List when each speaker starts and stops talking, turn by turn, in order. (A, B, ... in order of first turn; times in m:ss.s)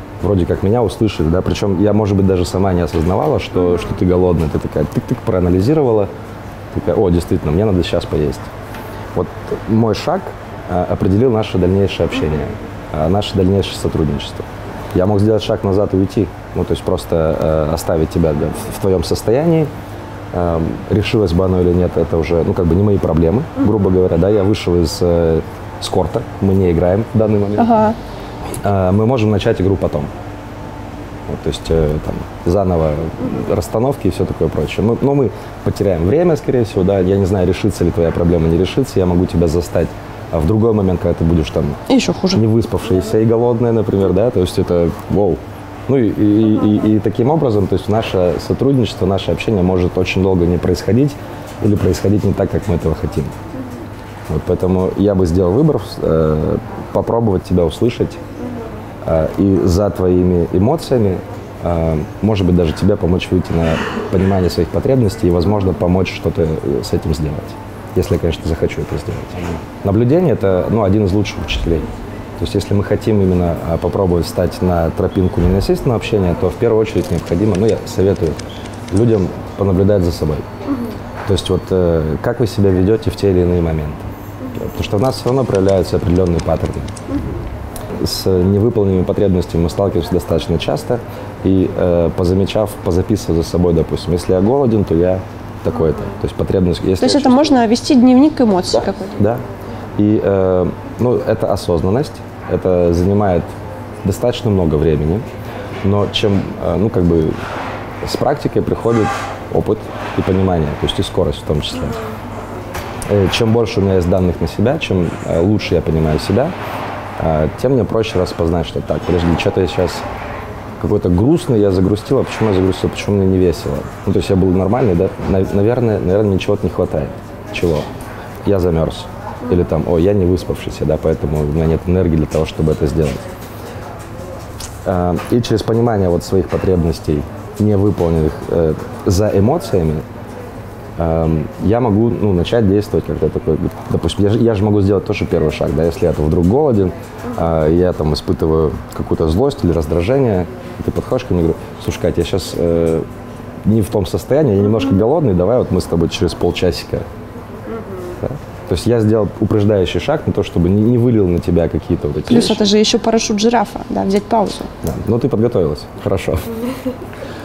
0:00.2-0:06.1 A
0:06.7-0:08.5 A
0:09.1-0:19.7 A
0:20.3-0:27.8 A
0:27.6-0:28.0 B
0:28.6-0:30.1 A
0:31.3-0:41.8 A
0:41.9-0:42.4 B
0:42.3-0:53.3 A
0:54.3-0:58.2 A
0:59.0-1:18.4 A
1:18.9-1:20.4 A
1:21.2-1:26.9 A
1:28.0-1:37.6 A
1:37.0-1:39.2 B
1:39.2-1:39.4 A
1:40.0-1:43.5 A
1:44.0-1:45.2 A
1:45.8-1:47.3 A
1:48.0-1:52.0 A
1:53.1-1:56.5 A
1:57.2-2:00.0 A
2:00.8-2:07.9 A
2:08.4-2:13.2 A
2:14.8-2:20.0 A
2:21.0-2:33.1 A
2:33.6-2:37.1 A
2:38.2-2:42.6 A
2:42.3-2:44.7 B
2:44.8-2:46.6 A